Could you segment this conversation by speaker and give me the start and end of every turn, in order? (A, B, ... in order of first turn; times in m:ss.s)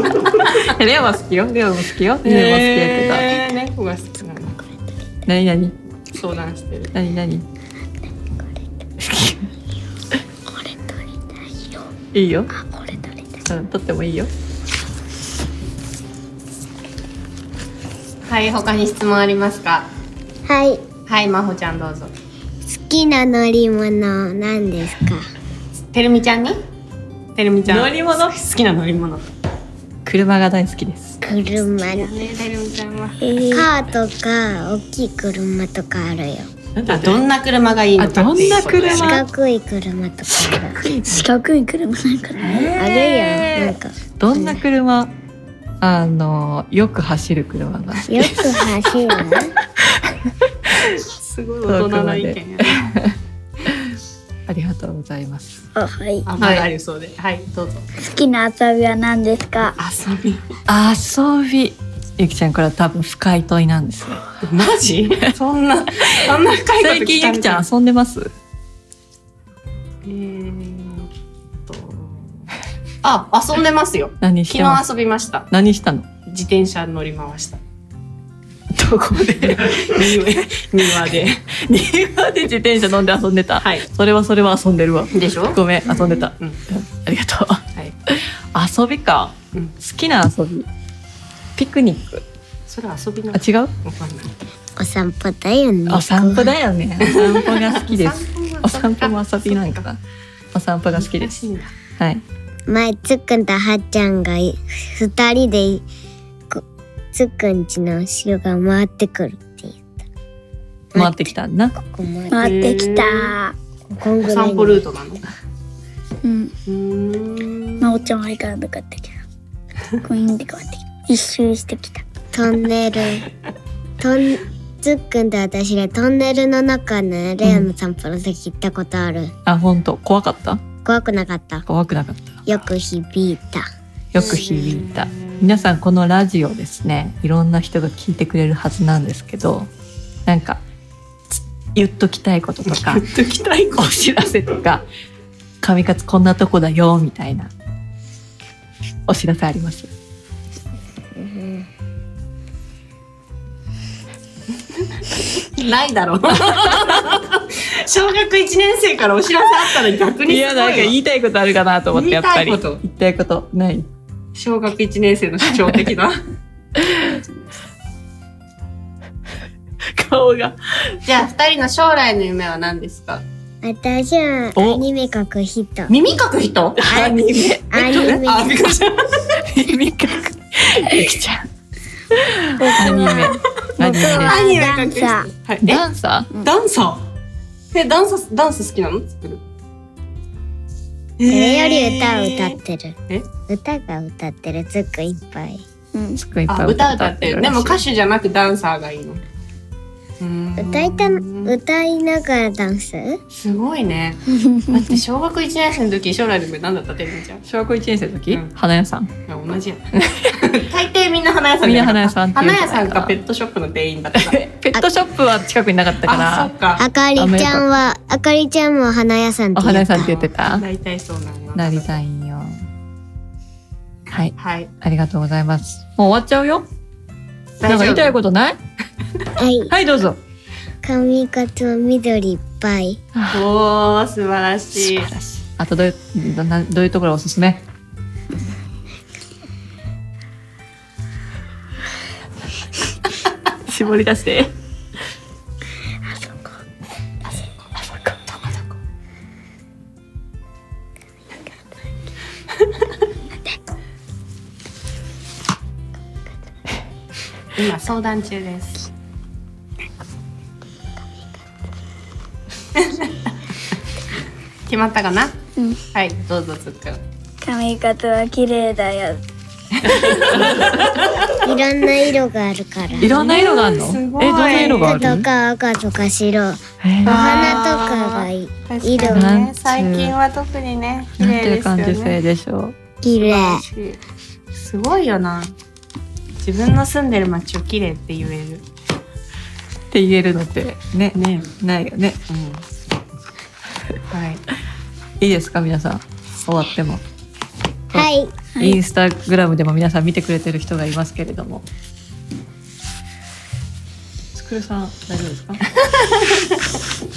0:00.4-0:03.4 A
0:02.2-0:04.6 B
0:05.3-0:05.7 A
0:06.1-0:06.9 B
0:06.9-0:07.4 A
0:09.0-0:09.5 A
0:10.5-0:11.1 C
0:12.1-0:12.5 A
0:12.6-0:13.2 C
0:13.5-0:14.3 A
0:18.3-0:19.9 B
0:20.4-0:20.8 D
0:21.1-0:22.1 B
0:22.7-0:25.3 D
0:25.9-0:26.6 B
0:27.4-0:29.2 B
0:27.7-0:28.3 A
0:30.0-0:31.2 A
0:31.2-0:32.1 D
0:31.9-0:33.2 B
0:33.2-0:33.7 C
0:33.5-0:36.5 D
0:36.8-0:37.3 A
0:36.9-0:39.2 B
0:38.0-0:39.2 A
0:38.8-0:40.8 D
0:40.4-0:41.3 A
0:41.1-0:42.8 C
0:42.4-0:45.1 A
0:42.8-0:44.6 D
0:45.8-0:48.6 A
0:48.1-0:49.5 D
0:50.7-0:51.0 A
0:51.1-0:52.9 B
0:51.7-0:53.2 A
0:54.5-0:55.6 A
0:55.8-0:56.3 C
0:56.3-0:57.9 B
0:56.4-0:56.6 A
0:58.0-0:59.8 C
0:59.6-1:00.5 B
1:00.7-1:04.2 A
1:04.4-1:07.7 B
1:06.8-1:08.3 A
1:10.0-1:11.1 B
1:11.7-1:12.4 B
1:13.0-1:15.5 B
1:14.2-1:14.8 A
1:15.5-1:16.1 A
1:16.3-1:17.6 B
1:18.8-1:20.3 A
1:19.4-1:21.4 B
1:21.6-1:30.7 A
1:23.6-1:23.8 B
1:25.1-1:26.6 B
1:31.6-1:32.2 A
1:32.7-1:34.3 B
1:33.3-1:33.7 A
1:34.8-1:36.6 D
1:35.9-1:40.0 A
1:37.0-1:39.8 B
1:40.5-1:41.4 A
1:40.9-1:41.7 B
1:42.0-1:42.2 A
1:42.7-1:45.8 D
1:46.5-1:50.0 D
1:50.9-1:52.5 D
1:51.0-1:51.8 A
1:52.3-1:53.6 C
1:52.4-1:53.4 B
1:53.9-1:54.8 D
1:54.2-1:55.2 B
1:56.2-1:56.5 C
1:56.7-1:57.9 B
1:57.8-1:59.2 C
2:00.0-2:02.0 C
2:02.3-2:03.3 D
2:04.0-2:09.3 D
2:07.4-2:07.7 A
2:09.5-2:10.6 A
2:10.8-2:11.7 D
2:11.7-2:12.5 A
2:12.5-2:13.7 D
2:14.1-2:19.7 A
2:14.2-2:15.7 B
2:20.3-2:20.6 A
2:21.3-2:23.1 A
2:22.7-2:24.0 B
2:23.8-2:24.8 A
2:25.6-2:27.5 A
2:29.1-2:29.9 A
2:31.1-2:31.7 D
2:35.3-2:40.9 B
2:40.2-2:43.9 A
2:41.9-2:42.8 B
2:44.4-2:46.2 B
2:46.8-2:47.2 A
2:49.8-2:51.0 A
2:51.0-2:53.2 B
2:53.6-2:55.9 D
2:54.6-2:54.8 A
2:55.9-2:57.0 B
2:56.8-2:58.1 A
2:56.9-2:58.7 D
2:57.7-2:59.4 B
2:59.4-3:01.5 A
3:02.1-3:04.4 A
3:02.6-3:05.3 C
3:04.0-3:05.8 B
3:05.6-3:06.3 A
3:06.4-3:07.1 B
3:07.7-3:09.4 B
3:11.2-3:12.6 B
3:11.3-3:13.0 D
3:13.5-3:15.6 D
3:15.9-3:16.2 C
3:16.2-3:17.8 A
3:16.5-3:19.2 B
3:20.2-3:21.6 B
3:20.6-3:23.2 D
3:23.3-3:27.4 B
3:24.3-3:24.8 C
3:27.4-3:29.1 A
3:29.3-3:34.4 B
3:30.0-3:30.5 A
3:31.6-3:33.2 A
3:34.2-3:36.5 A
3:36.0-3:36.8 B
3:36.8-3:40.2 D
3:37.2-3:37.6 A
3:39.6-3:40.6 A
3:40.3-3:42.0 B
3:41.6-3:42.6 A
3:44.1-3:46.6 A
3:44.4-3:44.7 B
3:47.6-3:48.2 B
3:47.7-3:48.6 A
3:49.4-3:49.7 D
3:49.7-3:50.2 A
3:50.8-3:53.0 D
3:53.2-3:53.4 A
3:53.3-3:55.1 B
3:54.8-3:57.6 A
4:03.7-4:04.5 A
4:08.3-4:08.6 B
4:17.6-4:18.9 B
4:22.8-4:23.2 B
4:24.7-4:25.3 B
4:25.9-4:27.0 B
4:27.4-4:29.2 C
4:29.8-4:31.4 B
4:30.3-4:30.7 A
4:31.3-4:33.2 D
4:33.0-4:35.1 B
4:33.0-4:35.3 A
4:34.5-4:39.3 D
4:36.8-4:37.6 A
4:37.0-4:42.2 B
4:39.1-4:40.2 A
4:41.2-4:42.8 A
4:43.0-4:43.7 D
4:43.2-4:44.0 B
4:44.5-4:45.5 B
4:46.4-4:48.6 B
4:49.9-4:52.2 A
4:51.2-4:51.5 B
4:52.3-4:52.6 B
4:54.1-4:54.4 B
4:55.2-4:57.0 A
4:57.9-5:01.6 A
4:57.9-4:58.3 D
5:04.4-5:05.6 A
5:05.9-5:06.6 B